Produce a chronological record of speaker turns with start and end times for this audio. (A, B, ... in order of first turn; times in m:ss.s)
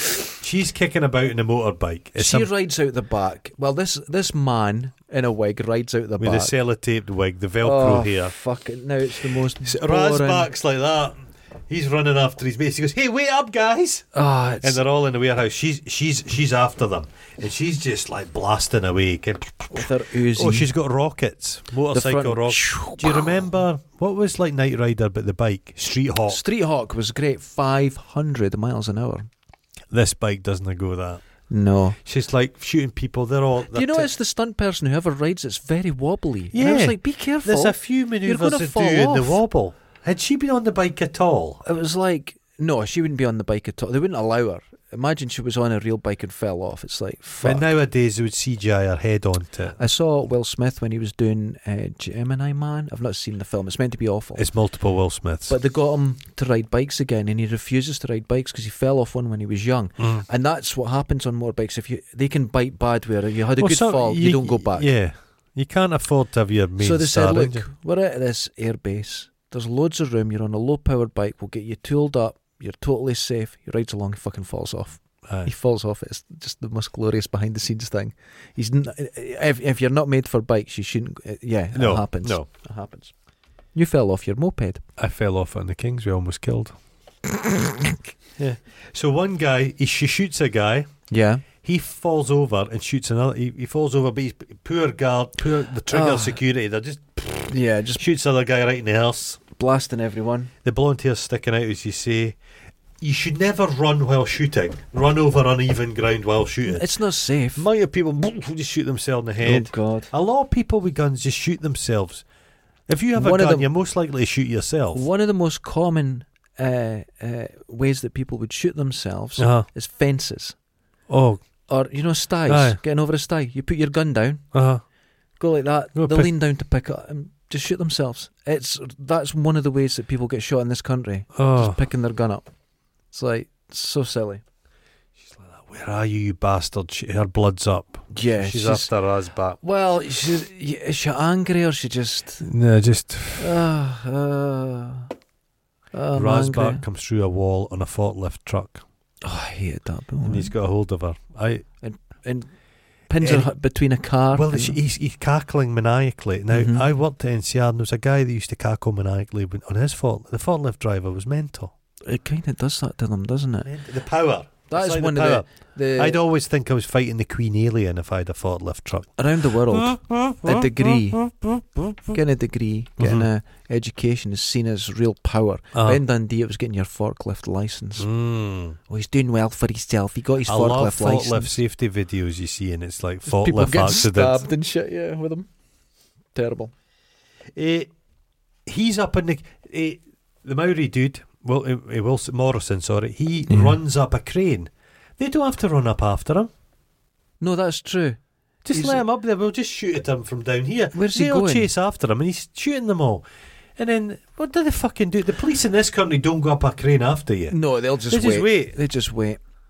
0:00.3-0:02.5 A
0:02.2-0:06.5 B
0:06.2-0:08.3 A
0:07.6-0:10.5 B
0:09.6-0:14.0 A
0:14.1-0:14.8 B
0:14.6-0:26.4 A
0:19.7-0:20.7 B
0:21.9-0:23.4 B
0:26.3-0:29.3 B
0:29.9-0:31.2 A
0:31.5-0:32.0 B
0:32.0-0:34.1 A
0:33.7-0:39.4 B
0:36.5-0:41.6 A
0:41.6-0:47.7 B
0:47.4-0:49.8 A
0:49.8-0:54.4 B
0:54.4-0:55.6 A
0:55.5-1:04.9 B
1:03.6-1:07.6 A
1:06.8-1:23.1 B
1:21.7-1:22.5 A
1:23.7-1:24.8 B
1:25.0-1:26.8 A
1:27.3-1:28.0 B
1:28.4-1:30.9 A
1:31.1-1:31.4 B
1:31.6-1:39.4 A
1:35.9-1:36.4 B
1:37.5-1:38.0 B
1:39.6-1:40.5 B
1:40.6-1:42.4 A
1:43.0-1:46.8 A
1:46.7-1:47.6 B
1:47.6-1:52.2 A
1:49.4-1:50.1 B
1:52.9-1:55.0 A
1:53.2-1:53.7 B
1:54.9-2:00.6 B
1:59.4-1:59.6 A
2:01.1-2:01.4 A
2:01.7-2:04.4 B
2:02.5-2:02.8 A
2:04.5-2:04.8 A
2:05.4-2:12.5 B
2:05.9-2:06.3 A
2:11.3-2:11.8 A
2:13.1-2:14.4 B
2:15.2-2:19.6 A
2:18.1-2:18.9 B
2:19.6-2:22.5 B
2:22.4-2:23.5 A
2:23.4-2:25.1 B
2:25.9-2:26.8 B
2:26.1-2:28.8 A
2:29.2-2:30.5 B
2:30.2-2:31.6 A
2:31.8-2:32.5 B
2:33.1-2:34.8 B
2:33.2-2:33.5 A
2:34.3-2:41.7 A
2:36.5-2:36.9 B
2:42.1-2:43.7 B
2:43.6-2:49.1 A
2:44.7-2:46.2 B
2:49.2-2:51.2 B
2:49.7-2:52.2 A
2:52.1-2:58.1 B
2:53.0-2:53.3 A
2:55.7-2:56.0 A
2:58.0-2:58.8 A
2:58.9-3:01.6 B
3:00.4-3:04.5 A
3:03.2-3:05.5 B
3:06.3-3:06.7 B
3:07.5-3:07.9 A
3:08.6-3:16.5 A
3:13.5-3:13.8 B
3:17.4-3:18.2 B
3:18.6-3:23.2 A
3:18.7-3:19.0 B
3:20.9-3:21.7 B
3:23.8-3:27.6 A
3:27.5-3:29.4 B
3:28.1-3:28.8 A